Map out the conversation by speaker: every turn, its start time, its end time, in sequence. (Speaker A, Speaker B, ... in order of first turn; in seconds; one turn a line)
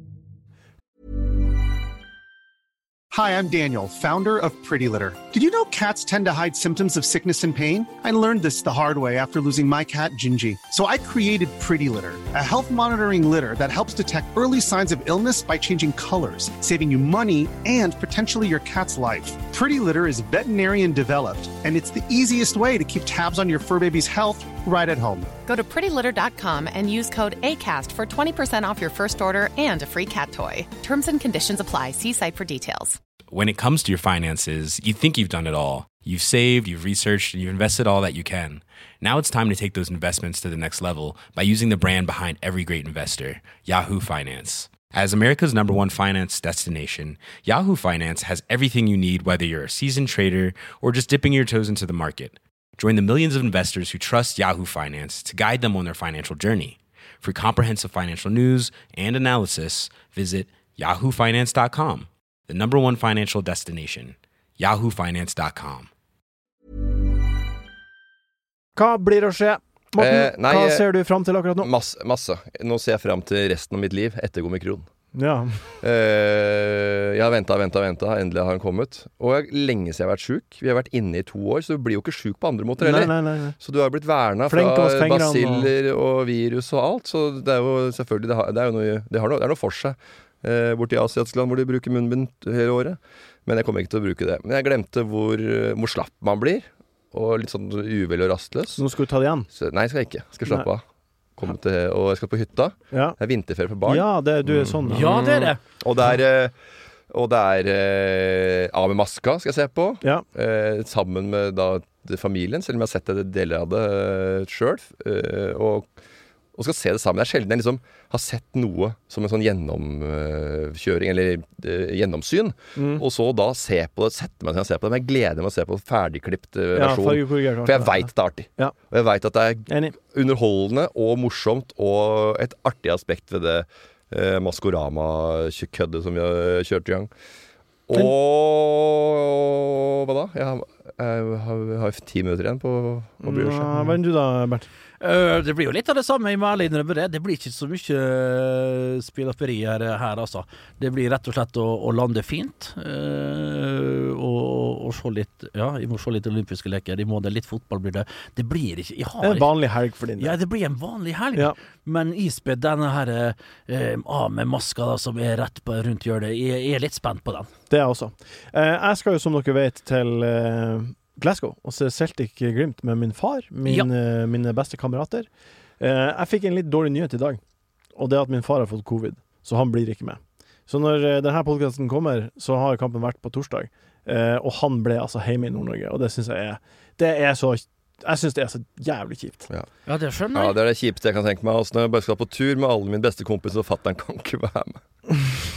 Speaker A: 3.1-25.3
Speaker B: 25.5-33.0
Speaker C: 33.3-65.9
Speaker D: 68.8-71.7
Speaker E: 70.0-70.9
Speaker E: 71.6-74.9
Speaker D: 75.1-75.7
Speaker E: 75.8-98.8
Speaker D: 82.8-83.5
Speaker D: 84.5-85.7
Speaker D: 98.8-99.5
Speaker E: 99.5-100.8
Speaker E: 101.4-106.5
Speaker D: 102.9-103.2
Speaker D: 103.9-105.1
Speaker F: 104.9-105.6
Speaker E: 107.1-115.9
Speaker E: 116.5-137.1
Speaker D: 122.8-123.0
Speaker D: 126.8-128.8
Speaker D: 129.7-130.0
Speaker E: 137.9-143.9
Speaker D: 143.2-144.7
Speaker F: 145.0-159.5
Speaker D: 159.2-160.3
Speaker F: 160.2-167.5
Speaker D: 167.7-175.3
Speaker D: 175.8-177.4
Speaker D: 177.9-189.5
Speaker F: 189.9-190.6
Speaker E: 190.3-194.8